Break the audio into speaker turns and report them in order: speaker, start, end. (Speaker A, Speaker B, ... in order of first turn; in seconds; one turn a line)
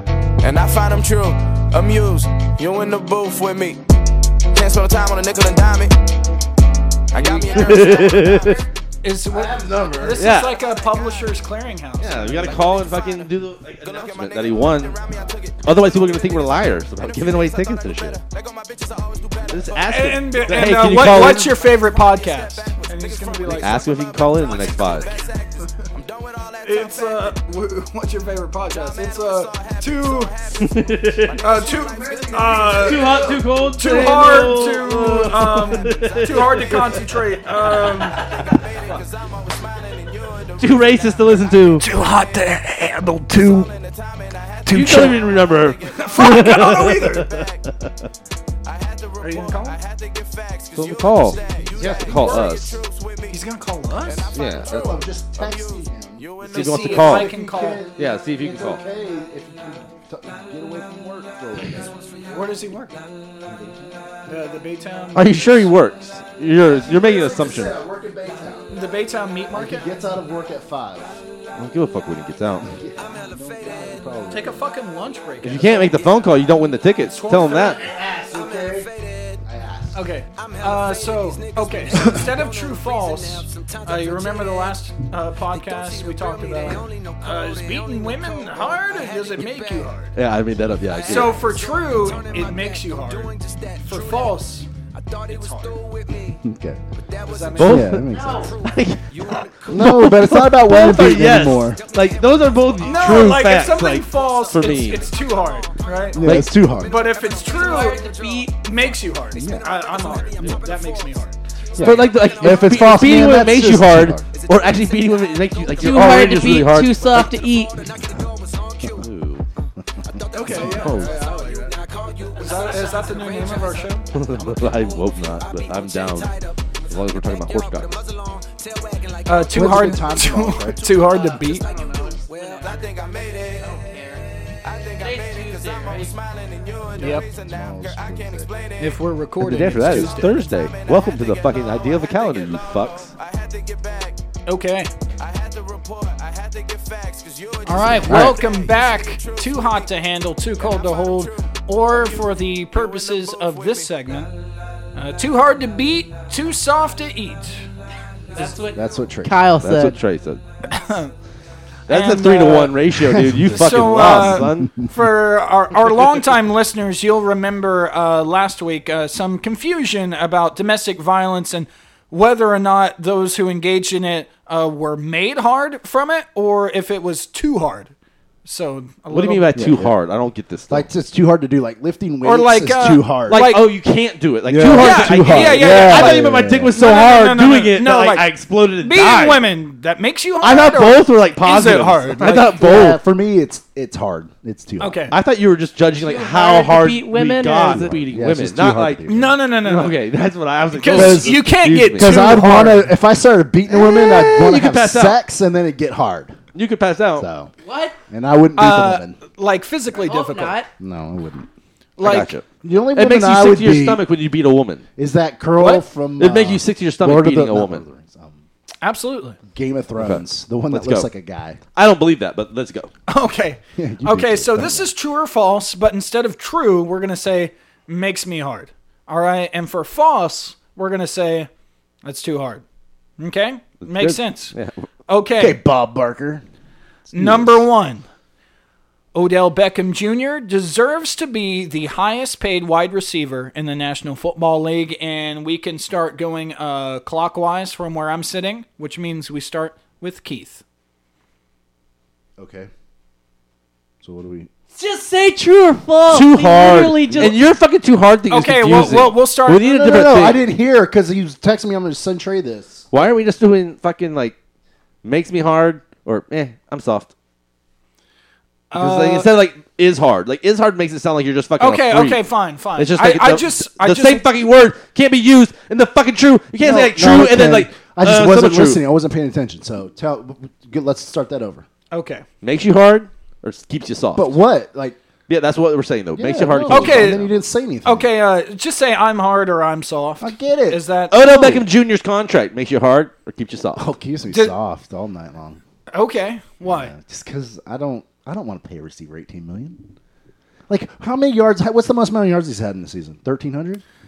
Speaker A: 0.4-3.8
Speaker A: 4.5-6.0
Speaker A: 7.1-8.7
Speaker B: 7.2-7.9
Speaker C: 7.5-8.6
Speaker B: 9.0-12.6
Speaker D: 9.3-10.3
Speaker A: 10.1-11.4
Speaker C: 10.2-10.6
Speaker A: 12.0-27.4
Speaker C: 12.0-15.1
Speaker D: 15.1-15.4
Speaker C: 15.6-18.2
Speaker C: 19.5-21.5
Speaker B: 19.9-23.8
Speaker C: 23.5-25.1
Speaker B: 25.1-25.9
Speaker B: 26.6-30.3
Speaker A: 28.7-42.3
Speaker C: 30.6-31.4
Speaker B: 31.4-39.0
Speaker D: 31.4-33.4
Speaker C: 32.8-37.0
Speaker C: 40.6-41.9
Speaker B: 41.8-43.7
Speaker A: 43.3-47.7
Speaker B: 44.7-45.2
Speaker C: 44.7-47.9
Speaker B: 46.0-47.3
Speaker A: 48.6-57.3
Speaker B: 49.2-49.8
Speaker C: 50.8-52.8
Speaker D: 51.7-52.5
Speaker B: 53.3-54.4
Speaker C: 54.4-55.0
Speaker D: 54.4-61.9
Speaker C: 56.4-57.3
Speaker B: 56.7-57.9
Speaker C: 58.0-58.8
Speaker A: 61.7-63.0
Speaker B: 62.3-63.0
Speaker D: 63.5-64.0
Speaker B: 64.3-65.7
Speaker C: 65.1-67.8
Speaker D: 66.7-68.7
Speaker B: 68.7-69.9
Speaker D: 69.5-71.2
Speaker C: 71.6-72.7
Speaker D: 72.6-74.6
Speaker A: 73.0-74.1
Speaker B: 74.3-76.4
Speaker C: 75.4-77.8
Speaker A: 75.8-76.3
Speaker B: 77.1-77.9
Speaker A: 77.5-79.4
Speaker D: 77.8-78.9
Speaker D: 79.5-80.0
Speaker B: 79.9-90.1
Speaker A: 80.3-84.8
Speaker A: 85.4-96.5
Speaker C: 90.2-91.5
Speaker B: 91.0-94.7
Speaker B: 95.3-95.8
Speaker D: 96.4-96.8
Speaker A: 97.0-100.2
Speaker B: 97.2-97.9
Speaker C: 97.6-98.1
Speaker D: 97.6-98.6
Speaker E: 98.1-98.5
Speaker C: 98.6-105.0
Speaker D: 99.7-101.8
Speaker A: 100.8-119.1
Speaker B: 102.8-106.2
Speaker D: 106.1-107.0
Speaker C: 106.2-106.6
Speaker B: 106.8-111.3
Speaker E: 107.4-108.5
Speaker D: 109.3-109.7
Speaker D: 111.8-114.3
Speaker C: 111.8-117.3
Speaker E: 115.8-117.9
Speaker C: 119.0-119.5
Speaker A: 120.1-133.8
Speaker B: 120.3-121.7
Speaker C: 120.7-121.1
Speaker B: 122.4-124.0
Speaker C: 124.1-126.3
Speaker C: 126.9-127.9
Speaker B: 129.3-131.7
Speaker D: 129.5-130.9
Speaker E: 131.0-132.9
Speaker E: 133.5-134.2
Speaker A: 134.6-139.1
Speaker E: 135.0-136.1
Speaker B: 137.0-137.3
Speaker D: 137.1-138.5
Speaker B: 138.8-140.4
Speaker C: 139.4-143.1
Speaker A: 139.9-144.2
Speaker B: 144.5-144.9
Speaker A: 145.2-154.3
Speaker B: 147.7-154.3
Speaker C: 148.1-148.4
Speaker B: 154.9-157.6
Speaker E: 158.3-160.0
Speaker D: 158.8-159.4
Speaker C: 159.6-160.4
Speaker B: 160.7-161.1
Speaker B: 161.9-162.9
Speaker C: 161.9-164.8
Speaker D: 163.0-164.9
Speaker B: 163.4-177.9
Speaker B: 178.4-179.6
Speaker C: 179.1-180.9
Speaker D: 179.6-179.9
Speaker D: 180.7-183.4
Speaker B: 182.2-183.7
Speaker C: 183.3-189.4
Speaker D: 184.4-186.8
Speaker B: 184.6-192.6
Speaker C: 190.4-193.0
Speaker D: 192.2-195.1
Speaker B: 194.8-195.2
Speaker C: 195.1-202.4
Speaker E: 196.0-198.0
Speaker D: 197.7-199.4
Speaker B: 199.1-200.0
Speaker B: 200.7-202.9
Speaker D: 200.9-206.4
Speaker C: 203.9-205.2
Speaker C: 206.5-207.3
Speaker D: 207.2-207.5
Speaker E: 207.6-208.0
Speaker D: 208.1-209.2
Speaker B: 208.6-210.6
Speaker E: 210.0-210.7
Speaker D: 210.8-211.5
Speaker B: 212.0-212.3
Speaker C: 212.0-214.8
Speaker D: 212.6-214.0
Speaker D: 215.0-218.4
Speaker B: 215.6-215.8
Speaker C: 216.2-217.8
Speaker B: 218.8-219.4
Speaker D: 219.5-221.6
Speaker C: 220.0-221.1
Speaker C: 221.8-222.9
Speaker B: 223.1-231.5
Speaker D: 223.8-224.9
Speaker B: 232.0-232.6
Speaker B: 233.2-234.6
Speaker C: 233.8-234.9
Speaker B: 235.1-235.6
Speaker D: 235.4-236.4
Speaker D: 237.1-237.7
Speaker B: 237.1-238.1
Speaker B: 239.1-250.6
Speaker D: 252.4-252.7
Speaker D: 254.0-254.5
Speaker E: 254.7-257.4
Speaker C: 256.1-260.4
Speaker D: 257.1-257.4
Speaker B: 258.3-260.0
Speaker D: 259.7-262.9
Speaker C: 262.9-264.4
Speaker C: 265.0-267.1
Speaker B: 268.7-269.3
Speaker C: 268.8-272.2
Speaker B: 271.6-274.3
Speaker C: 272.8-278.8
Speaker D: 276.6-281.7
Speaker B: 281.9-282.2
Speaker C: 282.4-284.3
Speaker D: 284.1-285.0
Speaker C: 285.3-287.3
Speaker D: 286.1-288.1
Speaker B: 286.7-287.2
Speaker B: 287.9-291.1
Speaker D: 290.2-291.6
Speaker C: 291.1-293.9
Speaker D: 293.8-295.6
Speaker B: 295.9-296.9
Speaker D: 296.6-299.8
Speaker D: 300.7-303.8